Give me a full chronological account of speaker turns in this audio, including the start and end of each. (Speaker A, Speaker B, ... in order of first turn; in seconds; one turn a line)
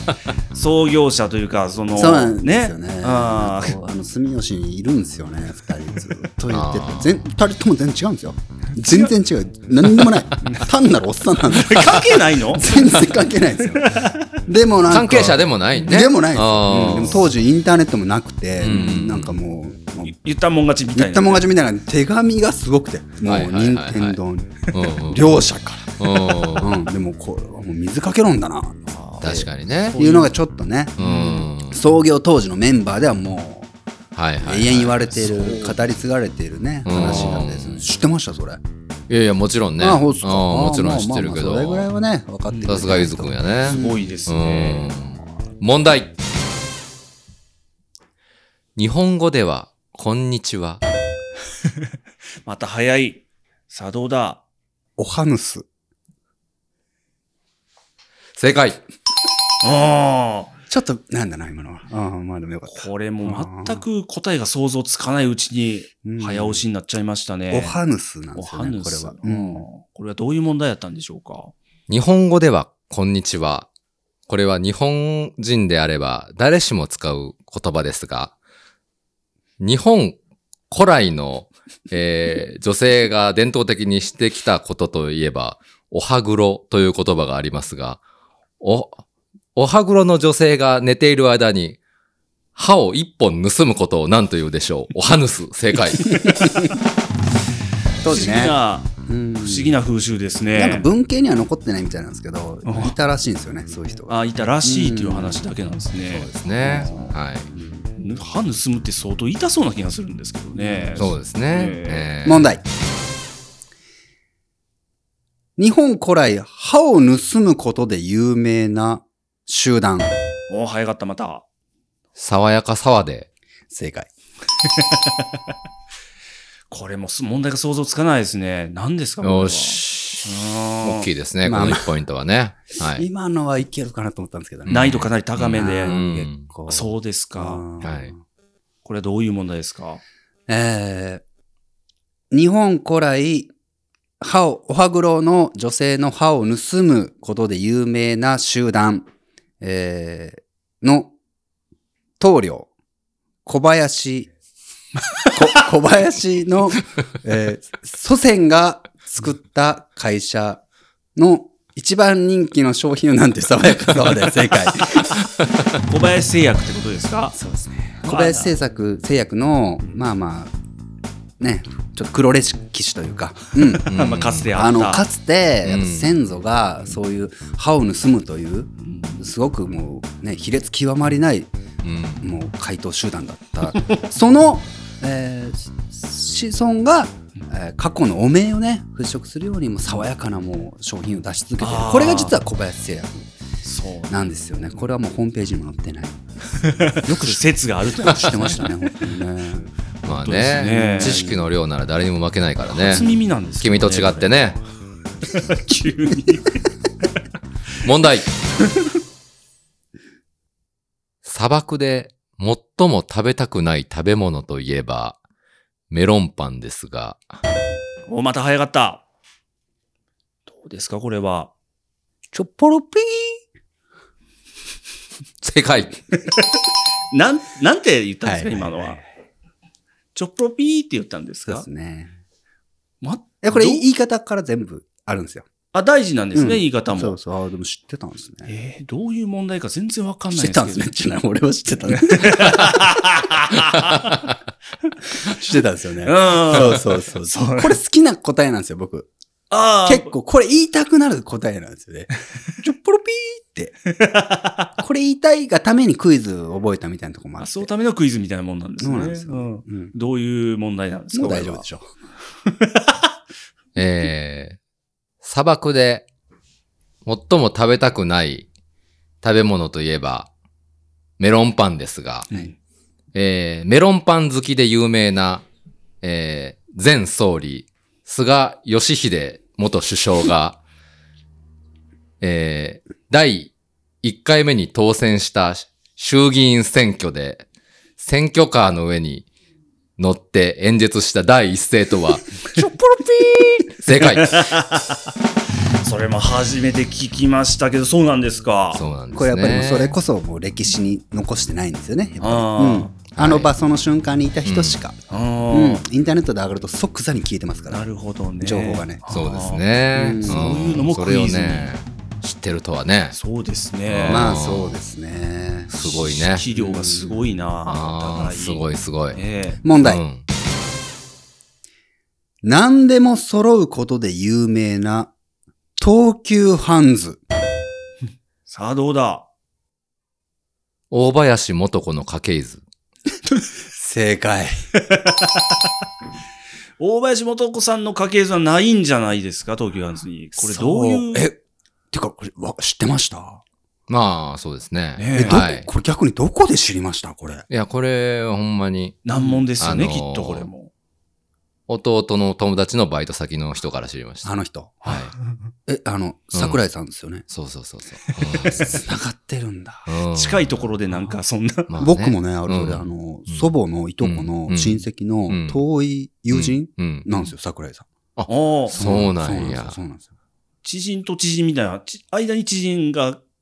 Speaker A: 0.5-3.8
Speaker B: 1.9-20.1
Speaker C: 6.5-7.2
Speaker A: 8.8-9.1
Speaker A: 11.5-13.1
Speaker A: 13.7-14.2
Speaker C: 14.8-17.3
Speaker C: 18.6-19.4
Speaker A: 20.0-21.5
Speaker B: 20.9-29.4
Speaker C: 23.2-24.2
Speaker C: 24.7-25.3
Speaker C: 26.0-26.8
Speaker A: 28.9-30.4
Speaker C: 29.2-30.0
Speaker B: 30.0-33.7
Speaker C: 31.0-31.8
Speaker A: 31.0-31.3
Speaker C: 34.1-35.0
Speaker B: 34.4-38.6
Speaker A: 35.1-35.8
Speaker C: 36.9-37.9
Speaker C: 39.1-41.9
Speaker B: 39.8-44.2
Speaker A: 42.5-42.9
Speaker C: 42.6-46.1
Speaker A: 43.6-44.9
Speaker C: 48.8-50.8
Speaker A: 52.4-54.4
Speaker B: 55.0-55.7
Speaker C: 58.4-58.8
Speaker A: 59.6-60.5
Speaker B: 60.7-63.9
Speaker A: 62.7-67.8
Speaker B: 66.0-66.6
Speaker B: 67.5-69.7
Speaker A: 68.3-71.5
Speaker C: 71.9-73.7
Speaker C: 74.3-78.3
Speaker C: 79.6-80.2
Speaker C: 80.7-88.0
Speaker C: 88.6-89.0
Speaker C: 89.6-91.8
Speaker C: 92.5-96.2
Speaker B: 98.0-99.8
Speaker A: 98.0-100.9
Speaker B: 100.5-105.5
Speaker A: 102.7-103.0
Speaker A: 104.1-107.2
Speaker C: 106.1-107.5
Speaker B: 106.5-107.8
Speaker A: 108.0-112.1
Speaker B: 110.5-111.2
Speaker C: 111.0-112.5
Speaker B: 112.2-112.6
Speaker B: 115.6-120.1
Speaker A: 120.5-121.4
Speaker C: 122.2-123.3
Speaker B: 123.7-124.1
Speaker A: 124.6-125.2
Speaker A: 126.7-131.1
Speaker C: 129.2-130.3
Speaker C: 130.8-133.1
Speaker B: 131.4-131.9
Speaker B: 132.9-135.0
Speaker C: 134.7-136.5
Speaker A: 134.7-136.0
Speaker B: 135.5-138.2
Speaker A: 136.7-137.6
Speaker C: 137.8-138.1
Speaker A: 138.8-140.0
Speaker B: 140.5-141.2
Speaker B: 142.3-143.5
Speaker B: 144.2-149.1
Speaker B: 149.6-151.1
Speaker B: 152.2-152.7
Speaker B: 153.4-154.3
Speaker B: 155.3-160.6
Speaker B: 161.2-165.2
Speaker A: 165.9-167.3
Speaker B: 167.3-170.5
Speaker A: 168.0-168.6
Speaker B: 171.4-173.9
Speaker A: 173.7-175.1
Speaker C: 173.9-174.5
Speaker B: 174.5-181.5
Speaker C: 175.6-176.2
Speaker A: 178.8-179.3
Speaker C: 181.8-182.3
Speaker B: 182.2-193.3
Speaker A: 191.6-192.4
Speaker A: 193.6-194.2
Speaker B: 194.1-196.2
Speaker A: 196.6-198.7
Speaker B: 196.9-197.5
Speaker B: 198.0-199.7
Speaker C: 198.4-198.7
Speaker A: 200.0-201.2
Speaker C: 200.0-204.6
Speaker B: 200.7-201.4
Speaker A: 202.7-204.6
Speaker A: 205.3-206.6
Speaker C: 207.8-208.3
Speaker C: 211.2-215.2
Speaker C: 215.9-217.3
Speaker A: 218.1-219.0
Speaker A: 220.5-221.5
Speaker B: 222.3-223.4
Speaker C: 225.4-226.0
Speaker A: 227.1-229.0
Speaker B: 228.2-229.0
Speaker A: 230.2-231.7
Speaker B: 231.5-232.2
Speaker A: 233.0-233.9
Speaker B: 233.4-235.5
Speaker A: 235.7-237.2
Speaker B: 236.3-238.5
Speaker A: 238.5-240.9
Speaker B: 240.3-242.7
Speaker A: 241.9-244.2
Speaker B: 245.2-249.1
Speaker A: 246.0-247.8
Speaker A: 249.5-250.2
Speaker B: 249.8-253.8
Speaker A: 253.9-254.7
Speaker B: 254.8-257.7
Speaker A: 257.4-261.6
Speaker B: 258.8-259.9
Speaker B: 261.1-261.9
Speaker A: 262.5-263.1
Speaker C: 263.8-264.6
Speaker C: 265.2-266.1
Speaker C: 267.1-268.5
Speaker C: 269.2-270.3
Speaker C: 271.2-272.4
Speaker A: 272.3-272.6
Speaker C: 273.1-275.4
Speaker C: 276.0-280.6
Speaker C: 282.2-283.5
Speaker C: 284.0-287.4
Speaker C: 288.0-289.2
Speaker C: 290.0-292.2
Speaker B: 292.6-293.7
Speaker C: 293.8-294.5
Speaker A: 294.0-295.0
Speaker A: 295.8-298.8
Speaker C: 298.7-300.0
Speaker B: 299.1-305.0
Speaker A: 302.2-302.9
Speaker C: 303.1-303.5
Speaker C: 304.4-304.8
Speaker A: 305.1-305.8
Speaker B: 305.5-307.8
Speaker A: 307.7-309.7
Speaker B: 308.4-309.1
Speaker C: 309.1-313.2
Speaker B: 309.9-310.7
Speaker A: 310.2-311.7
Speaker A: 313.1-314.4
Speaker C: 313.9-314.8
Speaker B: 314.1-317.4
Speaker C: 315.7-316.4
Speaker A: 316.1-319.6
Speaker C: 317.7-319.2
Speaker B: 319.6-320.0
Speaker C: 319.8-320.2
Speaker B: 322.4-325.1
Speaker B: 325.8-327.2
Speaker A: 328.5-329.3
Speaker C: 330.9-332.6
Speaker B: 333.8-334.5
Speaker A: 334.9-335.4
Speaker A: 336.8-341.3
Speaker B: 340.3-341.4
Speaker B: 341.9-343.4
Speaker C: 343.9-345.7
Speaker A: 345.0-345.4
Speaker B: 345.1-347.5
Speaker C: 347.5-350.5
Speaker A: 349.1-350.7
Speaker C: 351.7-354.3
Speaker B: 354.2-354.8
Speaker C: 354.8-355.1
Speaker A: 354.8-355.5
Speaker B: 355.7-357.2
Speaker C: 356.3-356.6
Speaker C: 357.3-358.6
Speaker A: 358.3-358.6
Speaker B: 358.5-359.9
Speaker C: 359.9-360.8
Speaker A: 360.1-361.7
Speaker C: 361.7-365.6
Speaker B: 361.8-367.9
Speaker C: 366.3-367.2
Speaker C: 368.2-369.8
Speaker A: 368.3-368.8
Speaker B: 368.7-370.1
Speaker A: 370.6-373.2